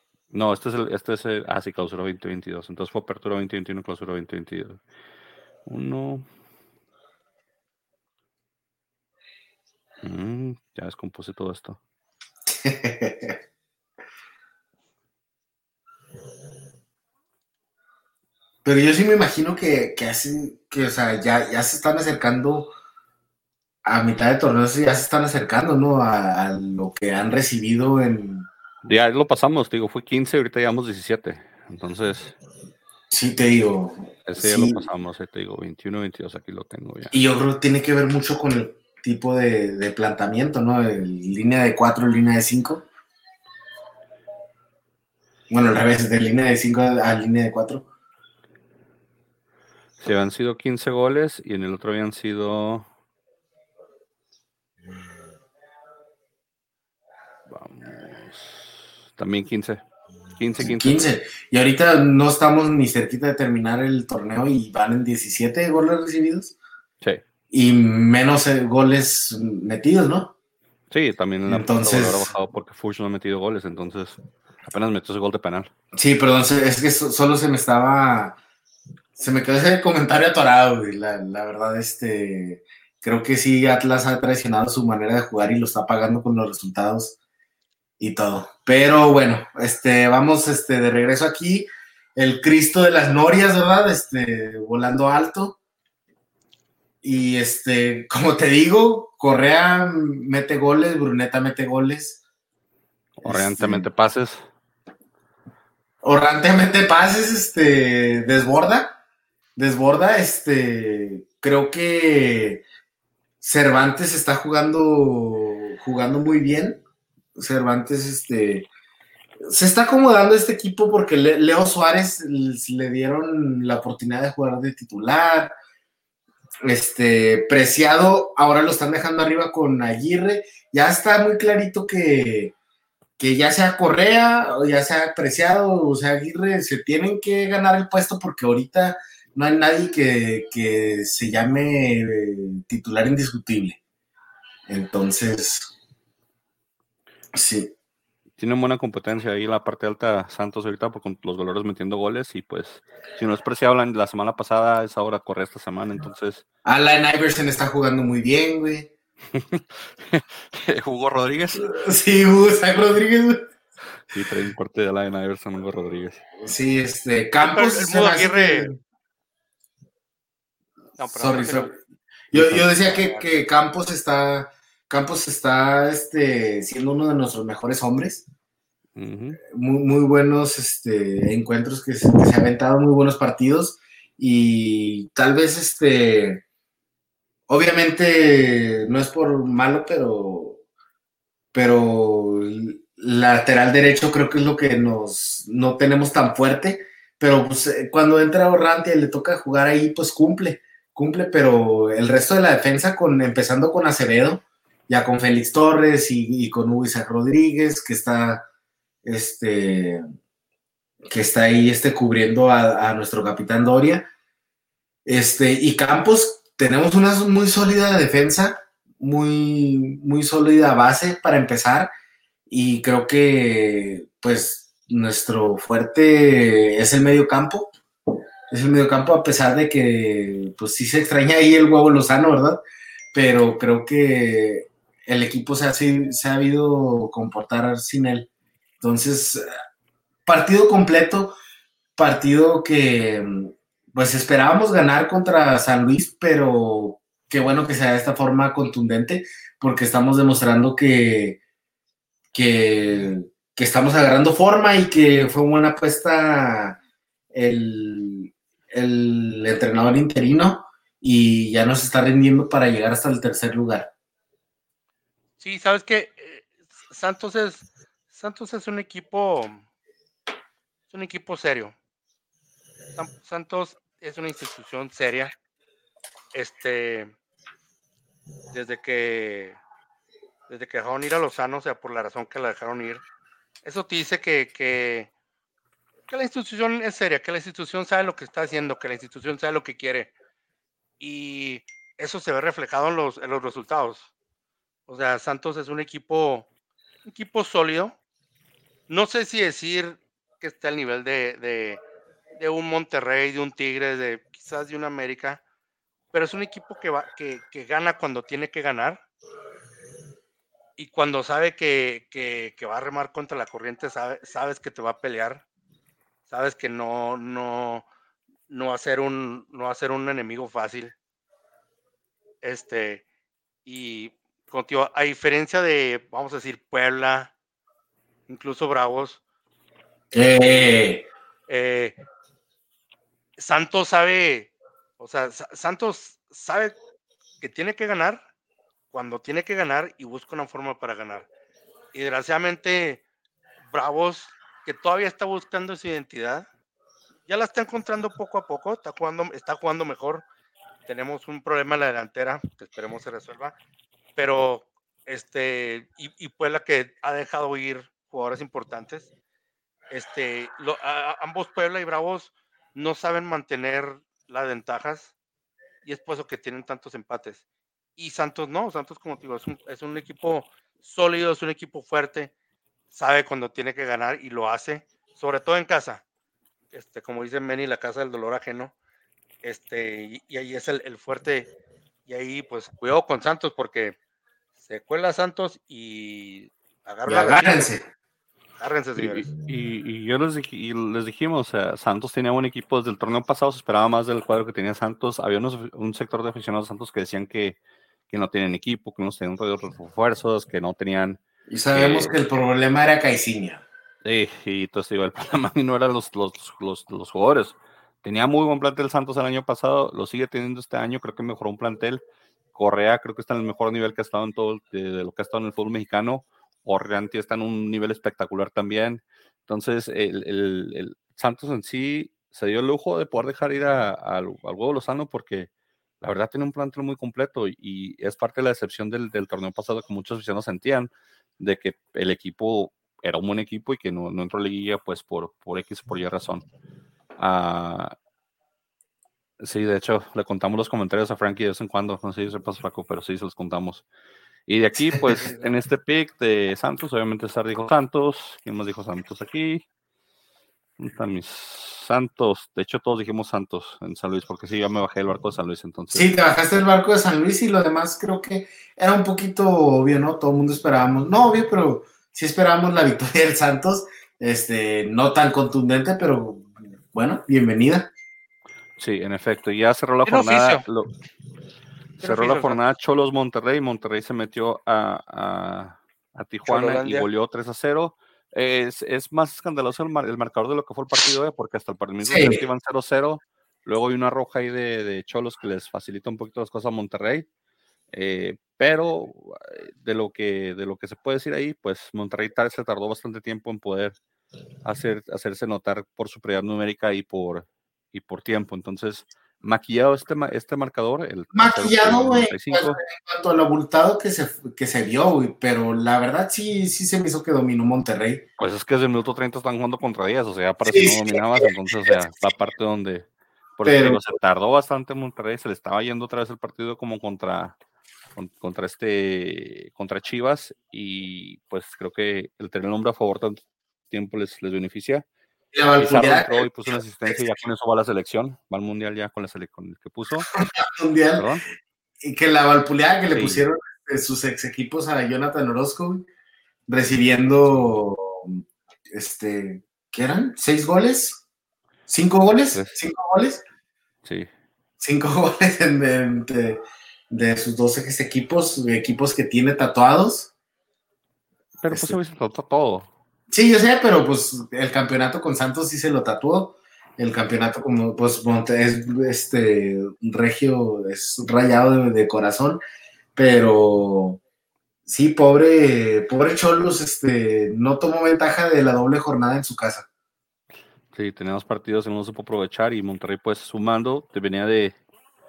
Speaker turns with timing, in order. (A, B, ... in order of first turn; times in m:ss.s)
0:00.3-0:04.8 A
0:05.6-0:06.3 A
0:10.0-0:11.8 A
0:12.5-0:13.4 B
0:18.6-0:22.7 B
0:23.8-0:28.5 B
0:28.8-0:32.4 A
0:33.1-0:34.8 B
0:34.2-0:37.1 A
0:37.1-0:42.8 B
0:45.5-0:47.8 B
0:50.0-0:52.9 A
0:57.5-0:59.8 A
1:00.4-1:01.1 A
1:00.6-1:06.5 B
1:07.5-1:10.3 B
1:10.9-1:15.7 A
1:11.5-1:12.3 B
1:15.9-1:18.4 B
1:19.2-1:27.2 B
1:28.0-1:35.6 B
1:37.0-1:42.2 B
1:43.2-1:44.5 A
1:43.2-1:43.9 B
1:46.0-1:49.0 B
1:49.6-1:52.6 B
1:53.4-1:56.8 B
1:57.4-1:58.7 B
1:59.4-2:05.5 B
2:06.6-2:12.5 B
2:13.2-2:23.8 B
2:24.7-2:25.7 B
2:27.3-2:27.7 B
2:28.4-2:36.4 A
2:36.6-2:38.9 B
2:39.3-2:41.7 A
2:41.6-2:43.4 B
2:44.1-2:46.2 A
2:46.4-2:48.8 B
2:47.4-2:48.7 C
2:51.0-2:51.7 C
2:51.1-2:51.7 B
2:52.3-2:58.2 B
2:52.3-2:52.7 A
2:52.9-2:53.2 C
2:59.0-2:59.4 A
2:59.4-3:06.4 B
3:07.5-3:10.6 B
3:11.5-3:28.4 B
3:29.0-3:30.0 B
3:31.1-3:34.1 B
3:35.0-3:41.9 B
3:42.5-3:47.7 B
3:48.5-3:52.6 B
3:53.1-3:58.3 B
3:58.8-3:59.4 B
4:00.2-4:01.4 B
4:02.0-4:11.4 B
4:12.3-4:16.8 B
4:17.3-4:23.9 B
4:25.4-4:29.6 C
4:30.9-4:31.7 C
4:33.0-4:35.3 C
4:36.3-4:37.1 C
4:38.5-4:39.6 C
4:40.5-4:43.0 C
4:43.6-4:45.1 C
4:46.1-4:50.1 C
4:51.0-4:54.1 C
4:54.9-4:56.5 C
4:57.0-4:57.9 C
4:58.9-5:01.8 C
5:02.4-5:05.4 C
5:06.1-5:09.0 C
5:10.8-5:15.4 C
5:16.3-5:17.8 C
5:18.5-5:20.9 C
5:22.4-5:23.0 C
5:23.6-5:27.3 C
5:28.3-5:29.2 C
5:30.1-5:31.0 B
5:30.1-5:30.9 C
5:31.5-5:32.0 C
5:33.4-5:36.8 C
5:37.4-5:38.2 C
5:38.9-5:41.3 C
5:41.9-5:43.0 C
5:43.7-5:46.5 C
5:47.3-5:50.2 C
5:50.8-5:53.5 C
5:54.2-5:59.1 C
5:59.9-6:05.1 C
6:05.8-6:07.4 C
6:08.0-6:12.3 C
6:12.9-6:16.0 C
6:16.7-6:18.7 C
6:19.4-6:21.5 C
6:22.0-6:24.0 C
6:24.6-6:27.7 C
6:27.1-6:27.8 B
6:28.6-6:29.3 C
6:29.0-6:37.6 A
6:38.1-6:41.2 A
6:41.5-6:43.6 B
6:41.7-6:42.2 A
6:44.0-6:52.0 A
6:52.5-7:05.5 A
7:06.0-7:16.4 A
7:17.2-7:17.9 A
7:19.4-7:23.8 A
7:24.5-7:29.6 A
7:30.8-7:36.1 A
7:35.9-7:47.9 B
7:48.8-7:50.9 A
7:50.0-7:50.6 C
7:52.0-8:07.3 A
7:52.0-7:52.6 C
7:56.4-7:57.1 C
8:02.0-8:02.4 B
8:07.9-8:14.0 A
8:14.6-8:22.8 A
8:21.3-8:28.2 B
8:28.4-8:37.6 A
8:30.6-8:31.9 B
8:33.6-8:34.0 B
8:38.2-8:45.0 A
8:45.5-8:47.2 B
8:45.8-8:50.3 A
8:50.3-8:51.3 B
8:51.2-8:51.4 A
8:52.0-8:56.1 B
8:53.1-8:53.4 A
8:56.7-9:01.2 B
8:57.4-8:57.8 A
9:01.9-9:03.4 B
9:02.5-9:02.8 A
9:04.0-9:04.3 A
9:04.8-9:10.3 B
9:11.6-9:12.9 A
9:11.7-9:12.0 B
9:13.3-9:22.6 B
9:23.2-9:24.2 B
9:24.9-9:29.9 B
9:30.9-9:34.8 A